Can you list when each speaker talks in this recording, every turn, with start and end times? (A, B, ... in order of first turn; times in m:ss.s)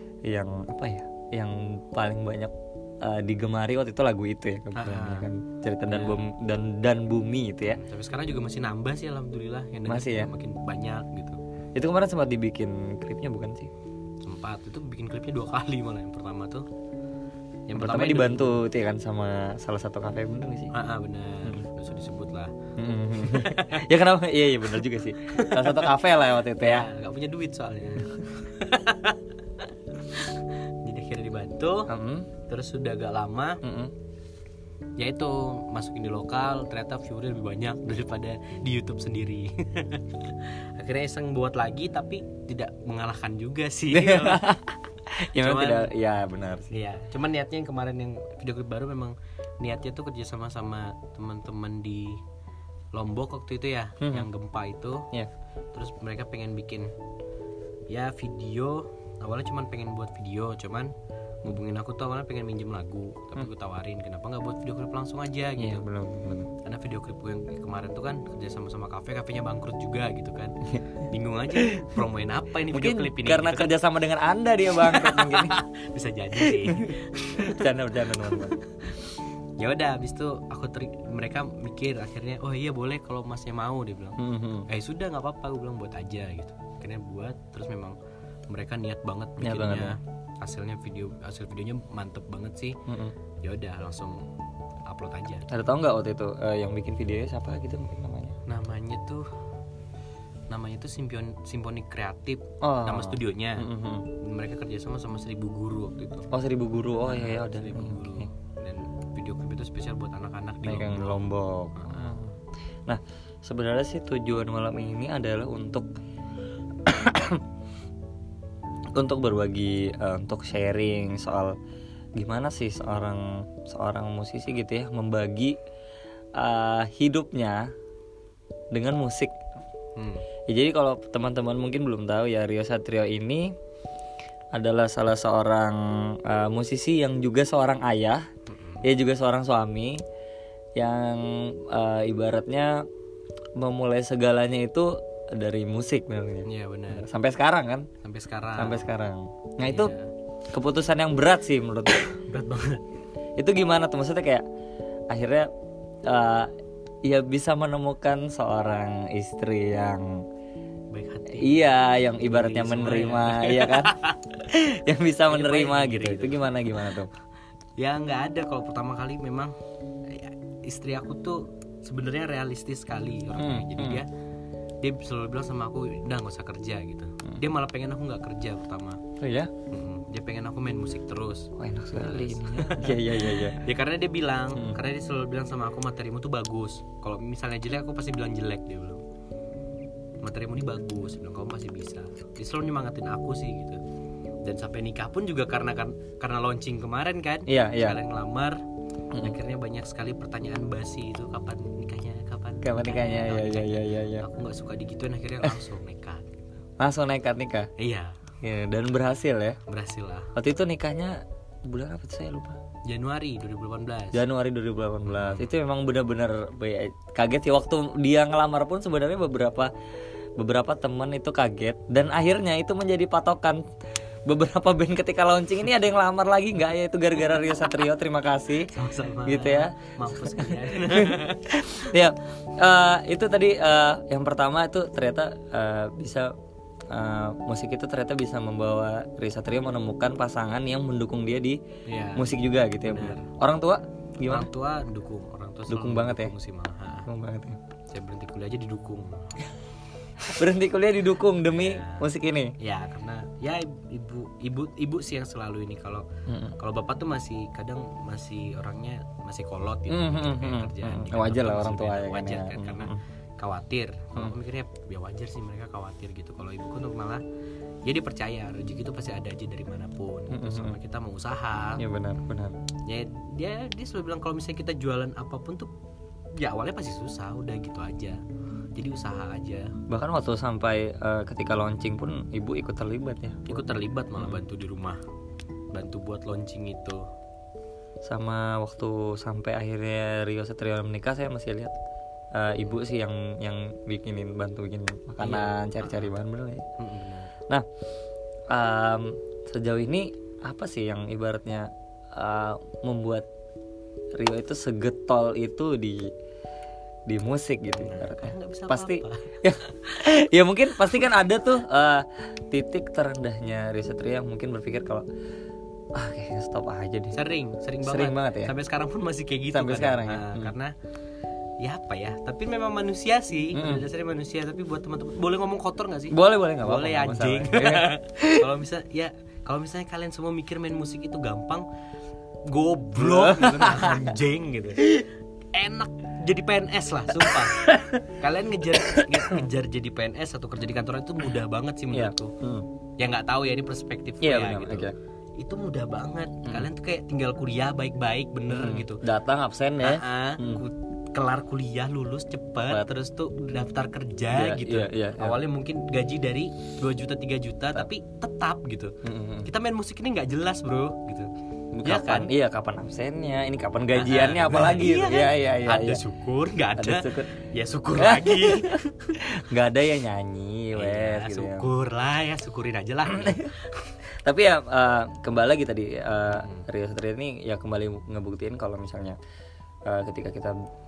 0:00.3-0:07.8 A
0:04.8-0:05.3 B
0:05.9-0:06.3 B
0:07.6-0:11.4 B
0:09.8-0:10.3 A
0:11.7-0:13.7 A
0:14.2-0:16.7 B
0:17.7-0:18.6 B
0:17.8-0:20.7 A
0:20.7-0:22.6 B
0:22.8-0:26.9 A
0:23.1-0:23.8 B
0:25.2-0:25.9 B
0:26.6-0:31.9 B
0:31.9-0:32.3 A
0:32.4-0:33.6 B
0:33.6-0:33.9 A
0:35.0-0:44.5 B
0:43.9-0:46.7 A
0:45.3-0:45.9 B
0:46.7-0:52.2 B
0:52.9-0:55.1 B
0:54.0-0:54.3 A
0:55.7-0:56.9 B
0:57.9-1:00.9 B
1:01.4-1:05.9 B
1:05.6-1:06.5 A
1:06.6-1:13.7 B
1:11.5-1:12.0 A
1:12.7-1:15.6 A
1:14.8-1:28.0 B
1:16.3-1:18.6 A
1:24.2-1:24.7 A
1:28.5-1:32.8 B
1:29.4-1:29.9 A
1:32.9-1:33.2 A
1:33.4-1:34.3 B
1:34.8-1:35.5 B
1:35.5-1:38.4 A
1:38.5-1:39.3 B
1:40.5-1:46.3 B
1:42.6-1:44.1 A
1:46.3-1:48.3 A
1:47.0-1:52.2 B
1:50.6-1:55.9 A
1:56.8-1:57.4 A
1:58.9-2:01.5 A
2:02.2-2:05.6 A
2:06.4-2:07.7 A
2:08.7-2:09.4 A
2:10.0-2:10.2 B
2:10.5-2:13.5 A
2:14.5-2:18.2 A
2:18.5-2:18.8 B
2:18.8-2:20.0 A
2:20.8-2:22.8 A
2:23.6-2:27.9 A
2:26.4-2:27.1 B
2:28.0-2:28.9 B
2:28.5-2:29.9 A
2:29.6-2:30.1 B
2:30.5-2:32.2 A
2:32.2-2:32.8 B
2:33.4-2:34.4 A
2:35.1-2:35.5 A
2:36.0-2:36.5 A
2:37.0-2:40.2 A
2:40.9-2:41.7 B
2:41.3-2:47.1 A
2:42.2-2:44.4 B
2:45.3-2:47.0 B
2:47.8-2:49.5 B
2:50.0-2:54.1 B
2:53.4-2:54.0 A
2:54.8-2:59.0 B
2:59.2-2:59.5 A
2:59.7-3:09.0 B
3:01.6-3:03.6 A
3:10.2-3:13.8 B
3:14.4-3:18.6 B
3:17.5-3:18.0 A
3:19.1-3:19.4 A
3:19.2-3:26.4 B
3:22.6-3:24.2 A
3:26.8-3:27.7 A
3:27.8-3:28.2 B
3:28.4-3:29.6 A
3:29.7-3:30.3 B
3:30.4-3:32.6 A
3:32.8-3:34.2 B
3:34.1-3:39.7 A
3:35.0-3:35.5 B
3:40.4-3:43.6 A
3:44.3-3:56.3 A
3:48.7-3:51.7 B
3:56.9-4:01.6 A
4:01.9-4:02.3 B
4:02.2-4:04.5 A
4:02.8-4:03.3 B
4:04.2-4:07.1 B
4:05.7-4:06.3 A
4:07.1-4:07.6 A
4:07.9-4:09.5 B
4:10.2-4:12.5 A
4:11.5-4:12.0 B
4:12.6-4:16.0 B
4:16.3-4:16.5 A
4:16.6-4:27.2 B
4:19.9-4:23.0 A
4:27.8-4:31.8 B
4:30.3-4:30.8 A
4:31.8-4:32.6 A
4:32.9-4:35.7 B
4:36.4-4:38.2 B
4:38.8-4:39.7 B
4:39.9-4:43.6 A
4:43.5-4:45.0 B
4:45.7-4:47.0 B
4:48.0-4:51.7 A
4:52.4-4:56.6 A
4:55.2-4:56.2 B
4:56.8-4:57.3 B
4:58.5-5:03.3 A
5:04.2-5:06.1 A
5:07.1-5:15.1 A
5:07.8-5:10.0 B
5:16.0-5:17.2 A
5:17.1-5:20.8 B
5:17.8-5:18.5 A
5:19.5-5:20.5 A
5:21.6-5:31.6 B
5:23.5-5:23.8 A
5:26.1-5:28.5 A
5:32.4-5:42.4 B
5:33.0-5:34.1 A
5:37.2-5:38.0 A
5:38.8-5:39.4 A
5:41.9-5:42.7 A
5:43.0-5:49.0 B
5:44.2-5:45.0 A
5:48.5-5:50.6 A
5:49.8-6:01.3 B
5:54.3-5:55.4 A
5:59.0-5:59.5 A
6:01.7-6:06.0 A
6:01.8-6:02.3 B
6:03.9-6:09.3 B
6:06.8-6:07.4 A
6:07.9-6:11.7 A
6:10.7-6:13.9 B
6:13.1-6:13.5 A
6:14.1-6:19.2 A
6:16.3-6:16.7 B
6:19.9-6:20.6 A